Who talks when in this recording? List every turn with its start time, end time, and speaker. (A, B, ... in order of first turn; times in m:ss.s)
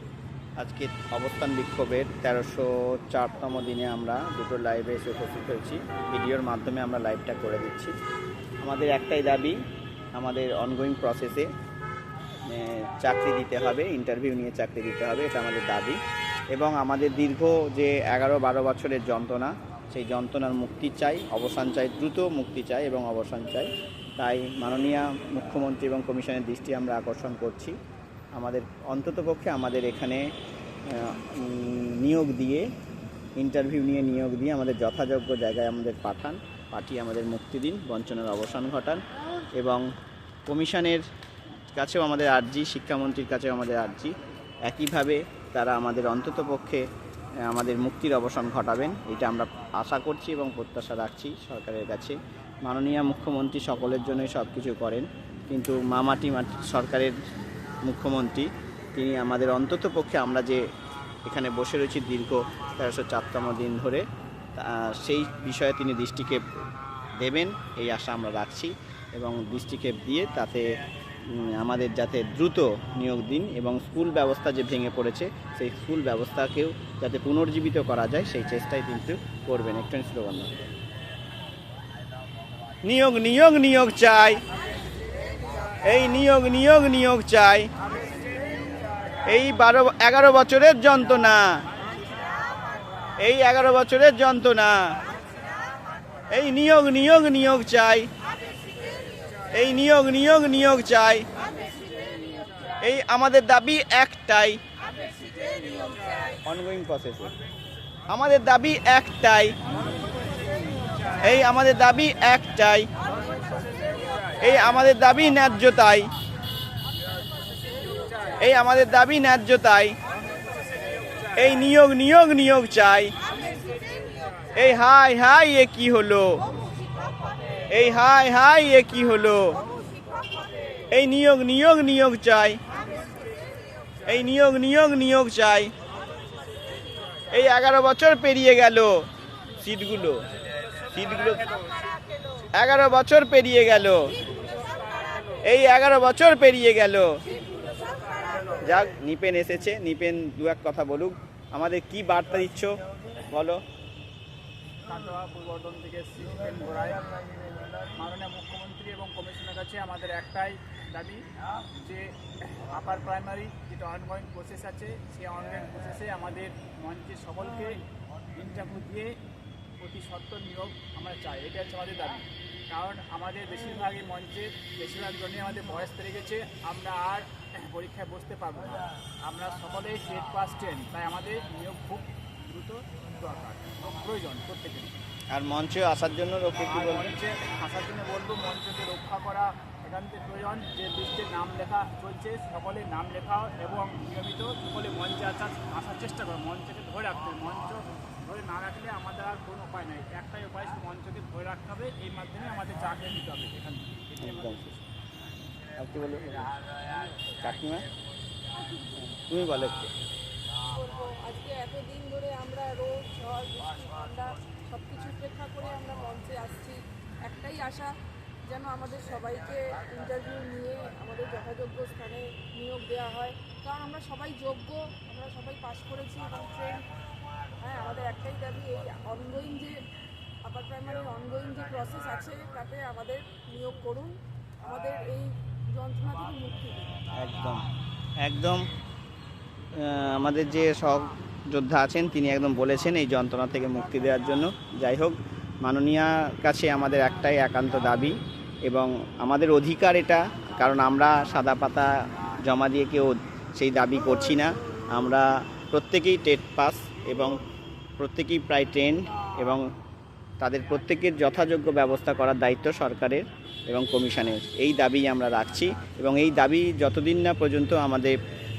0:00.6-0:07.9 A
0:08.6-0:09.6 A
0:10.1-0:11.5 A
0:12.4-0:16.0 A
0:16.5-0:27.7 A
0:28.3-0:30.2 A
0:30.9-0:32.6 A
0:33.4-0:39.0 A
0:39.5-0:39.8 A
0:40.5-0:41.0 A
0:41.7-0:44.1 A
0:44.6-0:46.8 A
0:47.5-0:57.1 A
0:57.8-1:00.6 A
1:01.2-1:04.0 A
1:04.5-1:06.4 A
1:07.2-1:10.6 A
1:11.2-1:20.6 A
1:22.8-1:24.4 A
1:25.8-1:27.7 A
1:29.2-1:31.6 A
1:31.7-1:32.4 B
1:33.2-1:34.8 A
1:36.3-1:38.1 A
1:39.5-1:41.3 A
1:42.8-1:44.6 A
1:45.4-1:46.2 B
1:46.4-1:47.4 A
1:48.1-1:49.8 A
1:51.2-1:52.9 A
1:53.3-1:54.0 B
1:54.4-1:56.1 A
1:57.7-1:58.3 B
1:58.3-2:00.0 A
2:01.3-2:03.2 A
2:04.5-2:06.4 A
2:07.7-2:09.6 A
2:10.9-2:12.6 A
2:14.0-2:15.7 A
2:17.3-2:19.0 A
2:19.6-2:20.2 A
2:20.9-2:21.5 A
2:22.5-2:24.2 A
2:25.4-2:27.2 A
2:28.1-2:28.6 B
2:28.6-2:33.6 A
2:34.8-2:37.1 B
2:37.9-2:41.2 B
2:41.8-2:49.2 B
2:49.8-3:05.0 B
3:05.3-3:07.2 A
3:06.6-3:24.8 B
3:24.2-3:24.6 A
3:25.8-3:26.5 A
3:27.4-3:27.8 A
3:28.9-3:29.9 A
3:30.7-3:37.9 C
3:38.4-3:46.9 C
3:47.6-3:49.8 C
3:50.4-3:56.9 C
3:57.2-3:57.7 A
3:58.2-3:58.6 A
3:59.8-4:17.4 A
4:18.0-4:19.6 A
4:20.4-4:28.2 A